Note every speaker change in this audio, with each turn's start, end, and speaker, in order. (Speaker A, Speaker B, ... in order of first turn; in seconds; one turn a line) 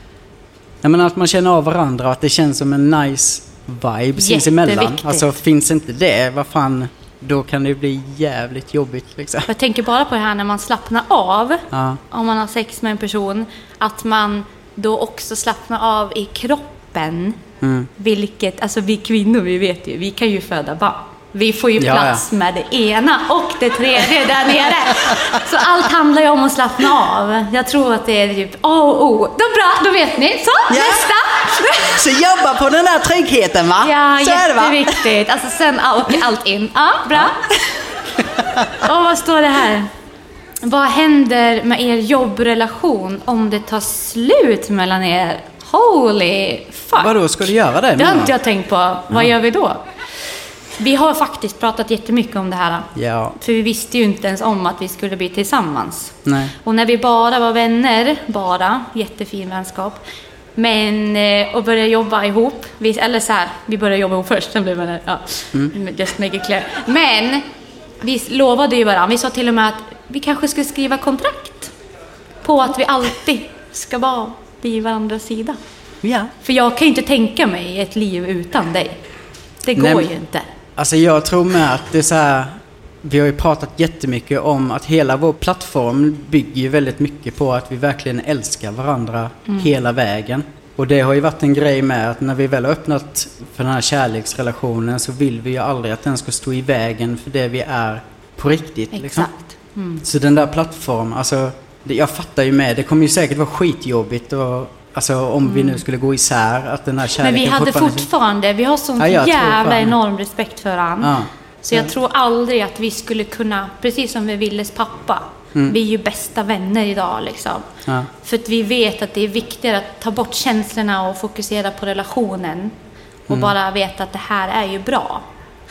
Speaker A: 0.8-9.5
Speaker B: 4.2-5.3
Speaker B: 9.5-17.4
Speaker A: 11.7-12.0
Speaker A: 17.6-17.9
Speaker B: 18.0-32.0
Speaker A: 21.8-22.2
Speaker A: 24.9-25.2
Speaker A: 30.7-31.0
Speaker A: 31.9-35.0
Speaker B: 33.8-37.4
Speaker A: 38.2-38.9
Speaker B: 38.8-39.9
Speaker B: 40.6-47.1
Speaker A: 47.0-48.3
Speaker B: 48.0-49.8
Speaker B: 50.8-60.0
Speaker A: 52.9-53.4
Speaker A: 56.2-56.5
Speaker B: 60.5-67.4
Speaker B: 68.0-71.7
Speaker B: 72.4-75.6
Speaker A: 76.0-76.3
Speaker B: 76.4-79.0
Speaker B: 79.6-80.5
Speaker A: 79.8-80.1
Speaker A: 80.8-99.3
Speaker B: 98.9-100.0
Speaker A: 100.0-108.1
Speaker B: 105.5-105.8
Speaker B: 107.2-122.7
Speaker A: 109.0-109.9
Speaker A: 111.0-111.9
Speaker A: 123.3-123.5
Speaker B: 123.3-125.2